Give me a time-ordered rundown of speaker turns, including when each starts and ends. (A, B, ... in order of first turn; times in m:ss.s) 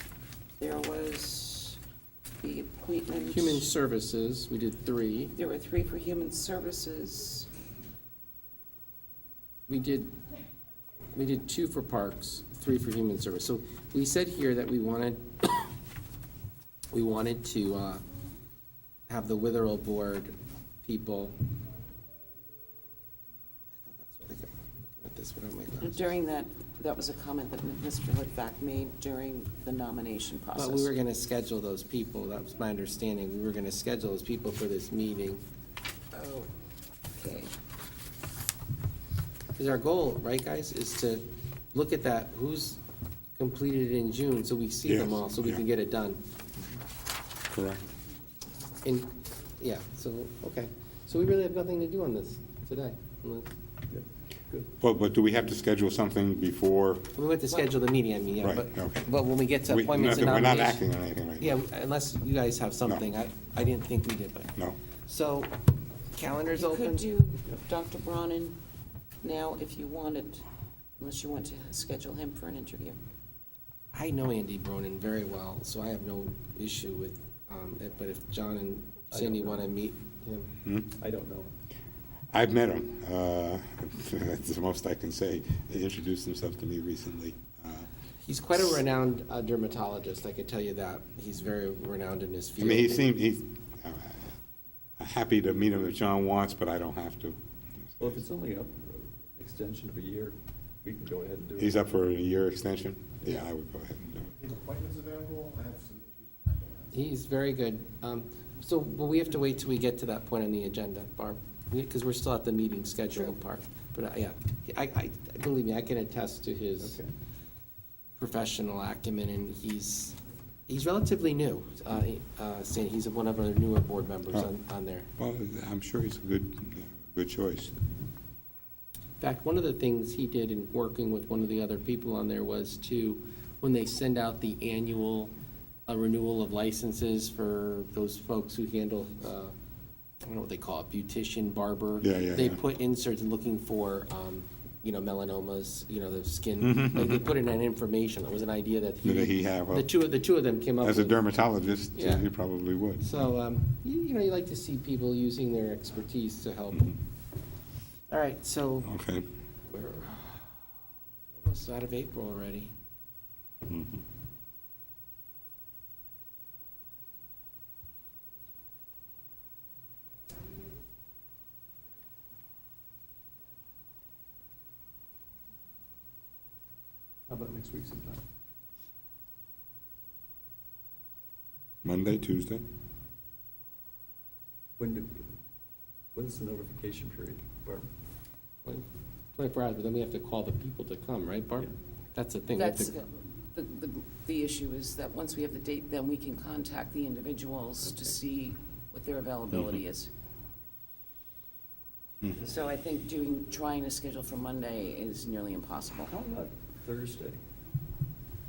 0:00.6-0:01.8 A
0:02.4-0:03.7 A
0:03.3-0:05.3 B
0:05.4-0:07.5 A
0:09.7-0:10.1 B
0:11.2-0:15.7 B
0:16.9-0:18.0 B
0:19.1-0:21.4 B
0:23.8-0:26.1 B
0:25.8-0:30.9 A
0:30.6-0:35.4 B
0:36.1-0:36.5 A
0:37.1-0:37.5 A
0:39.6-0:42.8 B
0:43.4-0:46.2 B
0:44.9-0:45.6 C
0:47.5-0:47.8 C
0:48.8-0:53.5 B
0:53.9-0:54.7 D
0:54.8-0:57.2 C
0:57.2-1:00.8 B
0:58.4-0:59.1 C
0:59.6-1:01.5 C
1:01.4-1:04.5 B
1:05.1-1:05.6 B
1:06.1-1:07.1 B
1:06.6-1:08.6 A
1:09.2-1:10.4 A
1:11.0-1:13.0 A
1:13.9-1:20.5 B
1:19.1-1:19.6 D
1:20.6-1:20.9 C
1:21.0-1:21.5 D
1:22.3-1:27.9 C
1:28.2-1:33.1 B
1:32.6-1:34.4 C
1:35.0-1:38.2 C
1:38.0-1:41.8 D
1:41.6-1:44.4 C
1:44.6-1:46.7 E
1:46.9-1:57.0 B
1:56.8-1:57.1 D
1:58.2-2:00.2 B
2:00.7-2:05.1 B
2:05.2-2:07.8 C
2:09.2-2:15.3 B
2:15.9-2:19.6 B
2:20.2-2:31.2 B
2:22.0-2:22.6 C
2:26.6-2:27.2 C
2:29.0-2:29.9 C
2:30.8-2:33.1 C
2:32.0-2:32.3 B
2:33.0-2:36.9 B
2:38.1-2:38.9 B
2:38.8-2:39.3 C
2:39.7-2:40.4 B
2:41.3-2:42.7 B
2:43.7-2:44.0 C
2:57.3-2:58.2 D
3:01.8-3:02.6 C
3:04.8-3:05.3 D
3:06.1-3:07.9 D
3:08.6-3:12.9 B
3:12.5-3:20.1 A
3:17.8-3:18.2 D
3:22.4-3:26.1 A
3:26.1-3:27.4 D